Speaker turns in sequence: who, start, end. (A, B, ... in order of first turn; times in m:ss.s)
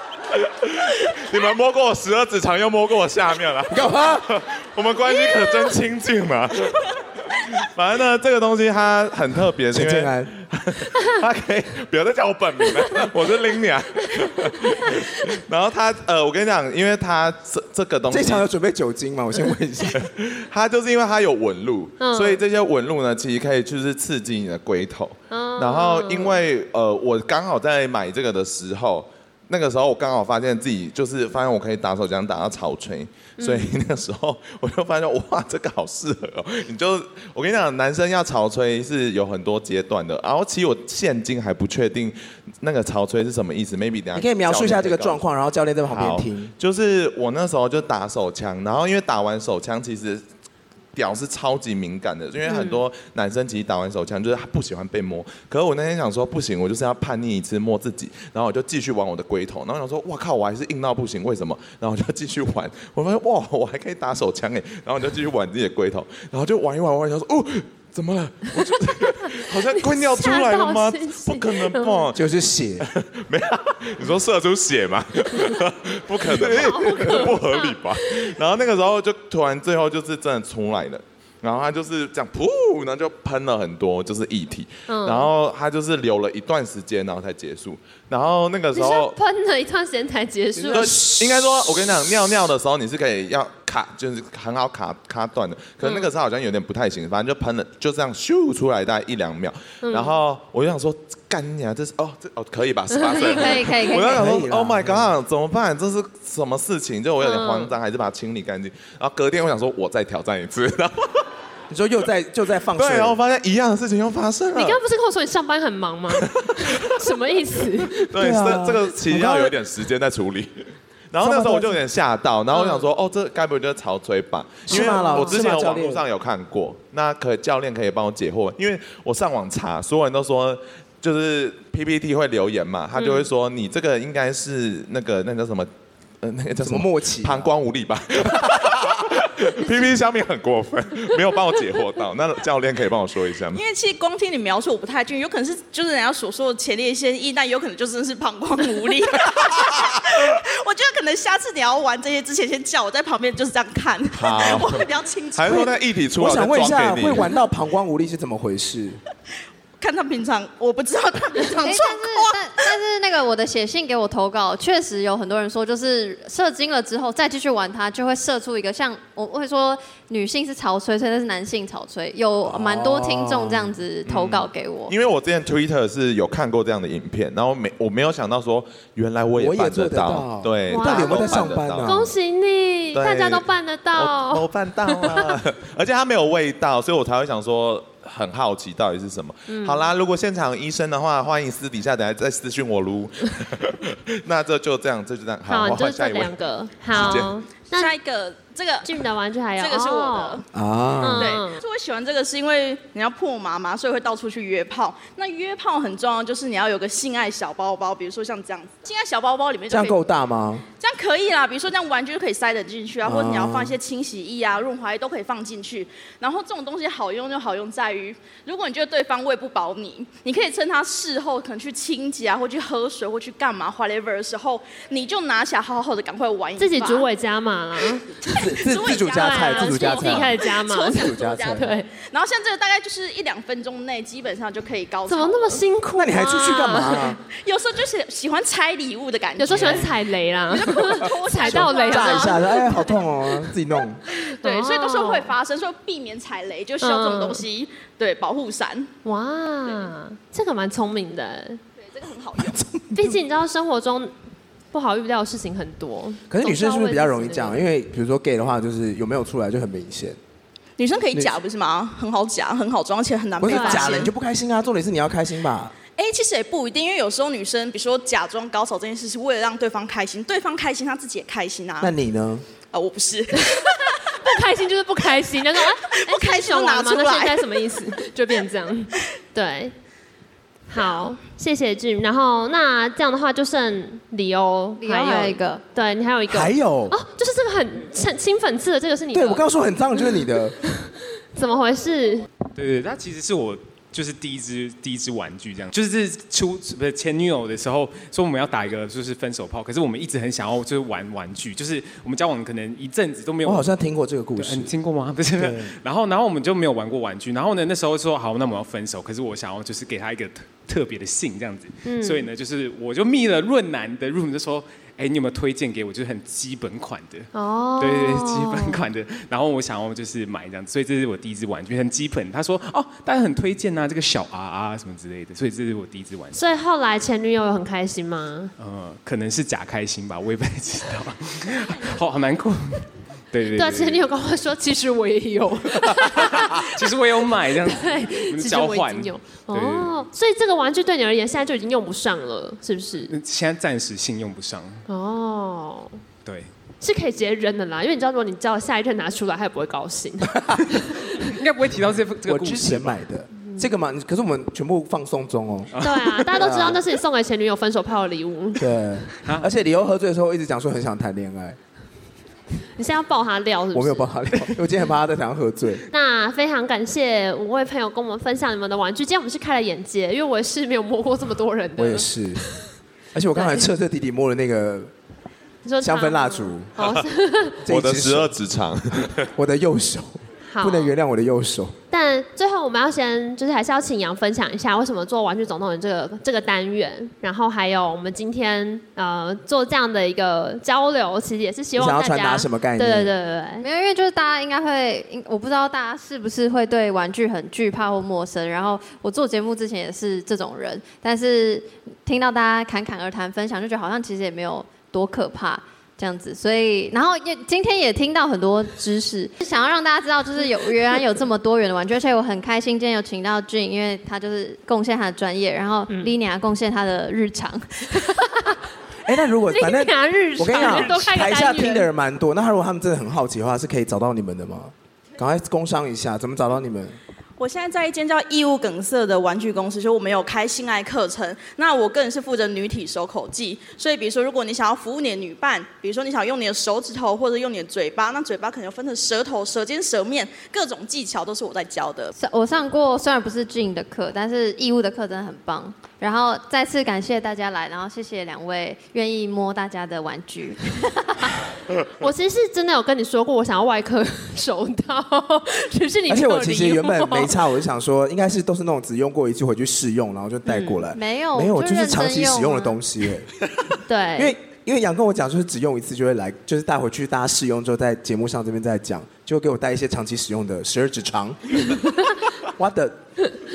0:00.3-0:18.4 A
0:03.7-0:04.3 B
0:05.3-0:05.7 C
0:09.7-0:10.3 B
0:18.1-0:20.1 B
0:19.9-0:45.2 A
0:22.0-0:22.4 C
0:25.3-0:26.4 C
0:33.4-0:33.7 C
0:44.1-0:46.5 B
0:45.9-0:50.2 A
0:50.9-1:12.2 A
0:52.5-0:52.8 C
1:09.3-1:12.1 C
1:12.1-1:12.9 B
1:12.8-1:29.2 A
1:16.4-1:18.3 C
1:16.6-1:16.9 B
1:24.9-1:25.3 C
1:28.7-1:31.0 C
1:30.6-1:31.5 B
1:30.7-1:51.3 A
1:35.8-1:36.1 C
1:39.8-1:40.2 C
1:43.1-1:44.3 D
1:43.1-1:43.6 C
1:44.0-1:45.1 B
1:47.2-1:47.8 C
1:51.7-1:53.2 B
1:52.8-1:54.8 A
1:54.6-1:58.1 C
1:56.2-1:57.0 A
1:58.1-2:15.7 A
1:58.2-1:59.5 B
2:01.2-2:01.8 B
2:02.5-2:02.9 C
2:04.7-2:06.0 B
2:04.7-2:05.4 C
2:13.0-2:13.3 C
2:16.2-2:23.6 A
2:16.6-2:17.5 B
2:23.5-2:35.8 E
2:29.3-2:30.2 A
2:34.1-2:34.8 A
2:35.4-2:37.4 A
2:35.5-2:39.0 B
2:39.8-2:42.7 E
2:41.5-2:55.0 D
2:52.4-2:53.8 B
2:54.0-3:02.1 A
2:59.4-3:02.1 B
3:00.7-3:05.4 C
3:02.9-3:16.4 A
3:09.5-3:09.8 C
3:15.5-3:17.9 C
3:16.9-3:17.4 A
3:17.7-3:20.5 E
3:18.8-3:20.4 C
3:20.5-3:21.4 B
3:21.0-3:21.6 C
3:21.1-3:30.0 E
3:29.7-3:30.6 B
3:30.8-3:47.1 E
3:33.0-3:33.8 B
3:46.6-3:48.0 C
3:47.9-3:55.6 E
3:48.3-3:51.7 B
3:48.9-3:51.9 C
3:55.1-3:57.1 C
3:56.0-3:57.2 B
3:57.3-4:03.1 E
3:59.4-4:03.0 C
3:59.6-3:59.9 B
4:01.4-4:04.0 B
4:04.1-4:05.3 C
4:04.3-4:08.9 E
4:06.8-4:07.4 C
4:09.0-4:11.6 C
4:11.8-4:12.6 E
4:12.4-4:13.2 B
4:12.9-4:14.1 C
4:14.7-4:17.6 C
4:16.3-4:20.2 B
4:20.8-4:24.1 E
4:23.4-4:25.8 B
4:23.5-4:24.0 C
4:26.0-4:31.9 E
4:31.8-4:32.4 B
4:32.7-4:34.0 E
4:33.4-4:39.7 C
4:35.6-4:37.8 E
4:40.7-4:49.4 C
4:40.8-4:41.1 E
4:44.8-4:45.6 D
4:46.3-4:47.0 B
4:49.1-4:50.6 B
4:50.7-4:52.3 C
4:52.6-5:03.8 F
5:03.4-5:04.7 B
5:04.4-5:26.4 F
5:05.3-5:05.7 B
5:11.8-5:12.3 C
5:17.3-5:18.8 C
5:26.4-5:28.5 C
5:28.6-5:34.0 F
5:33.6-5:36.7 C
5:35.9-5:40.1 F
5:37.6-5:43.1 C
5:43.1-5:44.8 F
5:44.9-5:46.0 C
5:46.2-5:46.5 F
5:46.8-5:50.5 C
5:50.3-5:50.7 B
5:51.1-5:53.0 F
5:52.2-5:55.7 B
5:55.7-5:56.6 F
5:55.8-5:58.7 C
5:56.3-5:56.8 B
5:58.6-6:01.6 B
6:02.8-6:04.1 C
6:03.7-6:05.9 B
6:05.9-6:12.7 C
6:11.8-6:12.4 B
6:13.1-6:14.9 B
6:13.4-6:13.7 C
6:15.6-6:17.6 C
6:15.8-6:16.8 B
6:17.6-6:18.3 B
6:17.7-6:19.3 A
6:19.2-6:21.8 B
6:20.5-6:20.9 C
6:21.9-6:33.6 C
6:31.8-6:33.1 B
6:33.6-6:58.0 D
6:58.1-6:58.5 C
6:59.0-7:07.0 B
6:59.5-7:01.9 C
7:07.4-7:22.1 E
7:22.2-7:31.4 D
7:32.0-7:37.4 C
7:36.1-7:43.3 B
7:40.5-7:40.8 C
7:40.9-7:42.8 D
7:43.9-7:44.3 C
7:44.2-7:51.8 B
7:52.5-7:53.0 B